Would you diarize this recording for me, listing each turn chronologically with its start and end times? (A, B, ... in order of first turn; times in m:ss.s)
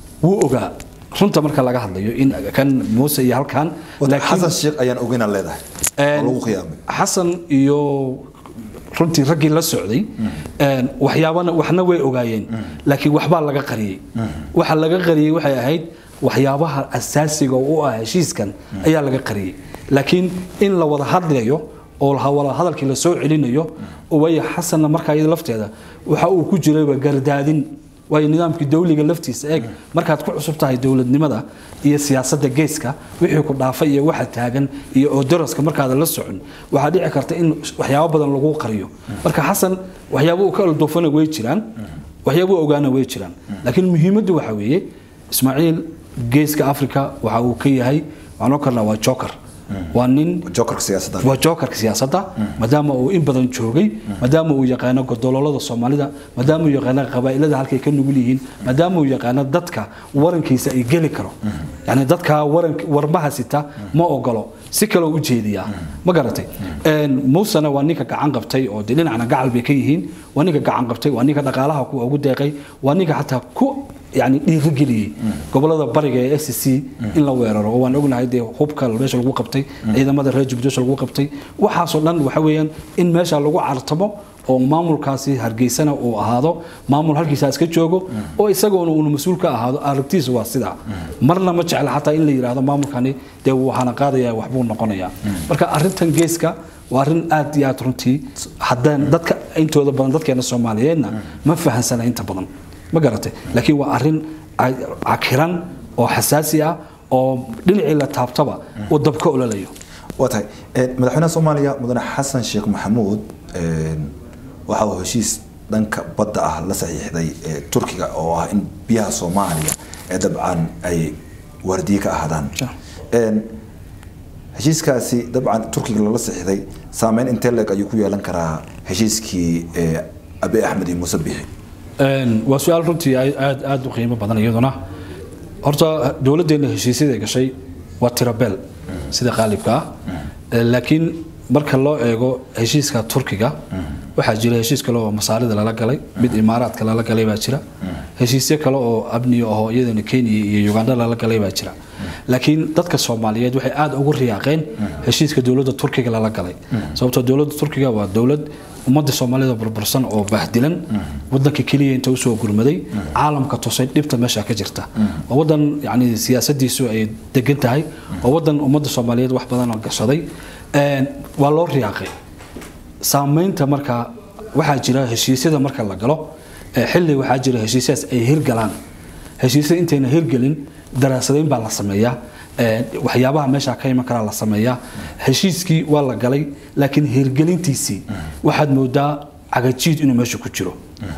0:00.2-0:04.6 A
0:04.0-0:05.6 B
0:06.0-0:08.3 A
0:06.1-0:06.8 B
0:08.9-0:41.7 A
0:42.2-0:49.4 A
0:49.9-0:50.5 A
0:50.4-0:51.4 B
0:51.2-1:49.7 A
1:50.2-1:54.1 B
1:54.7-2:02.6 B
2:03.1-2:03.5 B
2:04.6-2:11.5 B
2:12.0-2:14.8 A
2:15.6-2:19.9 A
2:20.5-2:23.6 A
2:24.2-2:27.6 A
2:28.2-2:31.8 A
2:32.3-2:52.1 A
2:53.0-2:58.8 A
2:59.4-3:10.8 A